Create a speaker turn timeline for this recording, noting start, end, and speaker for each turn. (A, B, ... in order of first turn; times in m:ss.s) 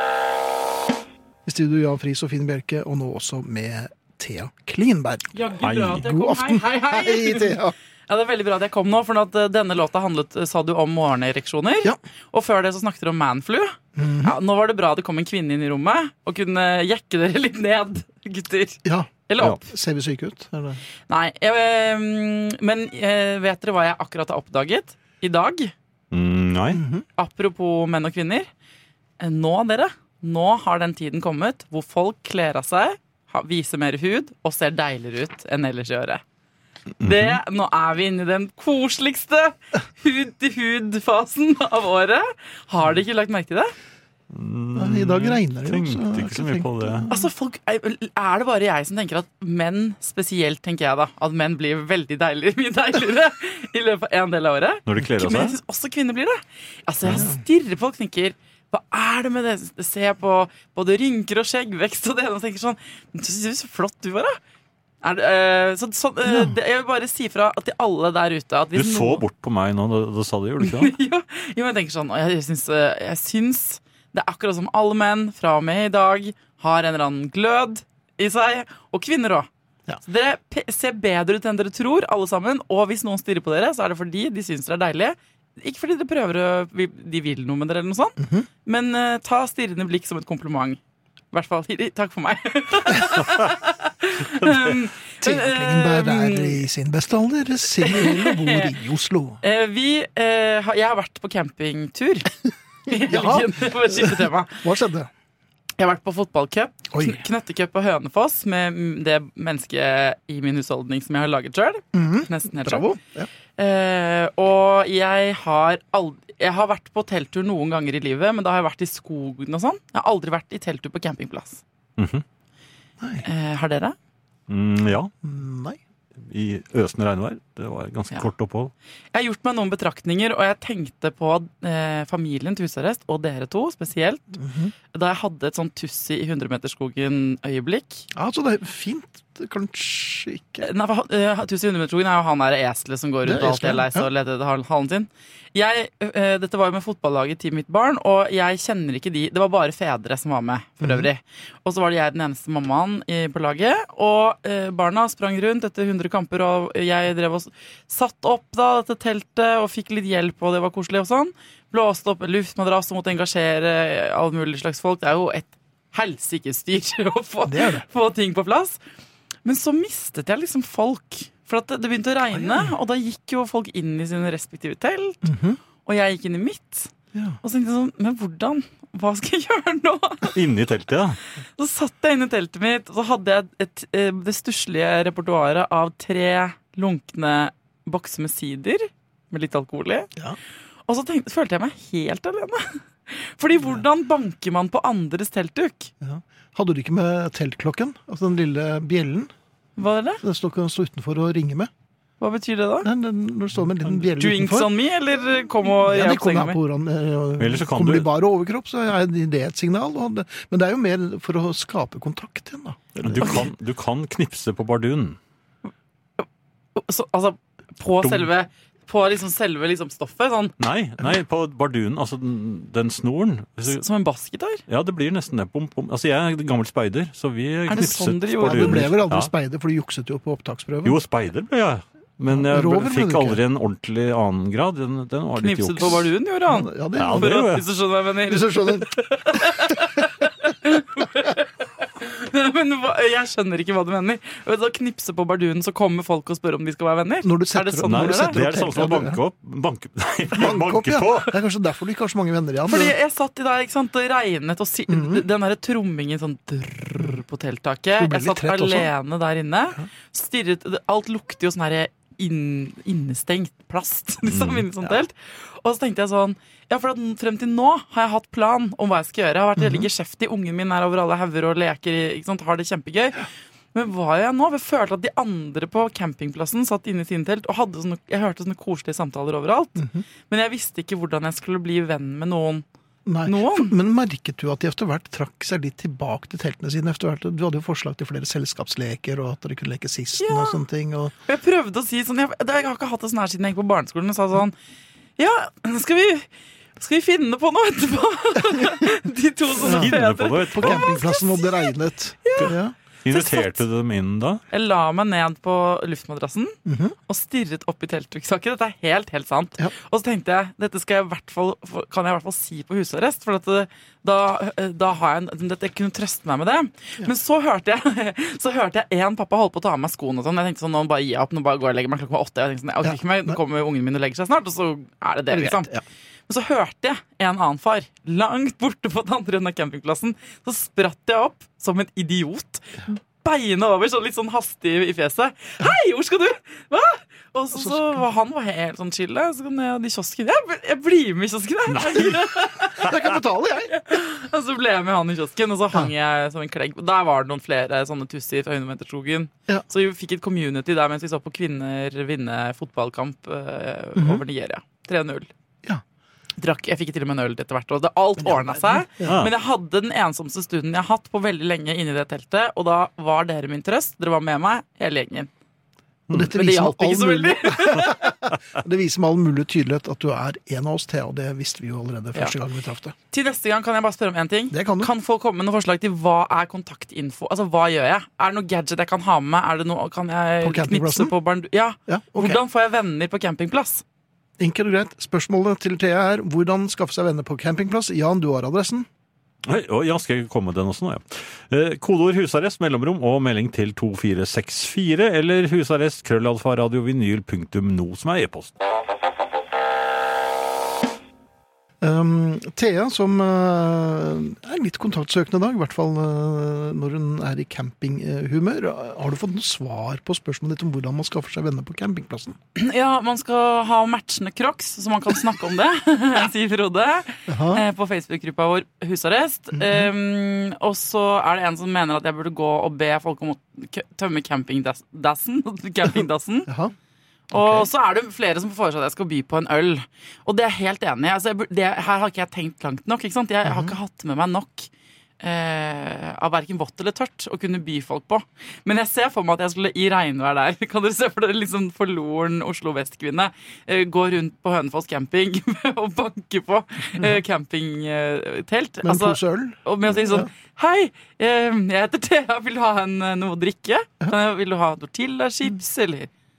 0:01.5-0:05.4 A
0:05.3-0:07.6 B
0:05.6-0:06.2 C
0:05.9-0:07.7 A
0:08.1-0:19.6 B
0:14.0-0:14.4 A
0:18.8-0:20.8 A
0:21.1-0:25.7 B
0:26.1-0:26.8 C
0:26.7-0:27.1 A
0:27.2-0:28.5 B
0:29.2-0:36.2 B
0:37.0-0:37.4 C
0:37.0-0:43.7 B
0:44.3-0:47.1 C
0:44.8-0:47.3 A
0:47.1-1:04.4 B
0:54.9-0:55.6 C
0:57.1-0:57.4 A
1:05.0-1:09.2 B
1:06.3-1:06.6 A
1:08.7-1:11.0 C
1:10.6-1:19.5 B
1:20.0-1:30.8 B
1:28.2-1:28.5 A
1:31.3-1:36.6 B
1:34.4-1:34.8 C
1:35.2-1:39.4 A
1:37.8-1:38.7 B
1:39.4-1:42.3 B
1:42.9-1:44.6 B
1:43.0-1:45.1 A
1:45.8-1:52.8 B
1:46.9-1:47.2 A
1:51.9-1:53.3 A
1:53.6-2:01.6 B
2:02.0-2:02.2 C
2:03.0-2:03.3 A
2:03.2-2:04.0 B
2:04.5-2:05.1 C
2:05.2-2:05.8 A
2:06.2-2:08.7 C
2:09.1-2:14.4 B
2:14.4-2:14.7 A
2:14.9-2:18.1 B
2:18.1-2:20.7 A
2:20.6-2:48.8 B
2:23.2-2:24.1 A
2:30.8-2:31.1 A
2:47.5-2:47.8 A
2:49.4-2:55.3 B
2:52.3-2:52.7 A
2:55.2-2:55.6 A
2:55.8-2:56.9 B
2:57.1-2:57.4 A
2:57.4-3:00.4 B
3:00.3-3:01.2 C
3:01.6-3:10.1 B
3:10.9-3:15.9 B
3:13.6-3:13.8 A
3:16.0-3:19.3 A
3:19.8-3:20.2 B
3:20.2-3:21.7 A
3:22.2-3:22.9 B
3:22.8-3:24.7 A
3:24.2-3:26.6 B
3:25.8-3:33.5 A
3:27.4-3:28.1 C
3:33.0-3:35.2 C
3:36.2-3:40.5 B
3:38.0-3:38.3 C
3:40.6-3:43.8 C
3:43.6-3:44.6 B
3:44.7-3:49.3 C
3:47.7-3:49.0 B
3:48.4-3:51.0 A
3:50.8-3:56.1 C
3:52.3-3:53.4 A
3:55.4-4:08.7 B
3:56.5-3:57.4 A
3:57.0-3:57.6 C
3:58.3-3:58.9 A
4:07.2-4:09.2 A
4:07.8-4:11.4 C
4:10.3-4:13.0 A
4:12.7-4:42.6 B
4:14.9-4:15.2 A
4:18.0-4:18.9 A
4:24.2-4:24.7 C
4:29.6-4:29.9 A
4:39.8-4:40.0 A
4:43.1-4:51.1 A
4:43.3-4:43.7 B
4:50.2-4:50.6 B
4:51.3-4:54.6 B
4:55.2-4:56.3 B
4:56.8-5:01.7 B
4:59.6-5:00.0 A
4:59.6-5:01.0 C
5:00.6-5:02.8 A
5:02.2-5:02.5 B
5:02.4-5:04.4 C
5:03.1-5:03.6 B
5:04.5-5:25.7 B
5:06.7-5:07.0 A
5:22.8-5:23.4 A
5:25.3-5:25.8 A
5:26.3-5:43.0 B
5:37.5-5:38.0 A
5:41.7-5:42.2 C
5:42.8-5:43.7 A
5:43.7-5:55.3 B
5:54.0-5:54.2 A
5:56.4-6:05.3 B
5:58.2-5:59.2 A
5:59.0-5:59.3 C
6:06.1-6:13.0 A
6:06.3-6:08.1 B
6:13.1-6:23.8 B
6:14.5-6:14.9 A
6:20.4-6:21.1 A
6:21.9-6:22.4 A
6:24.4-6:28.9 A
6:29.5-6:38.5 C
6:41.8-6:52.4 A
6:52.6-7:06.5 B
6:57.3-6:57.6 A
6:59.5-6:59.9 A
7:06.5-7:06.7 A
7:07.3-7:14.7 B
7:07.3-7:07.7 A
7:13.4-7:13.8 A
7:15.2-7:36.1 B
7:28.8-7:30.3 A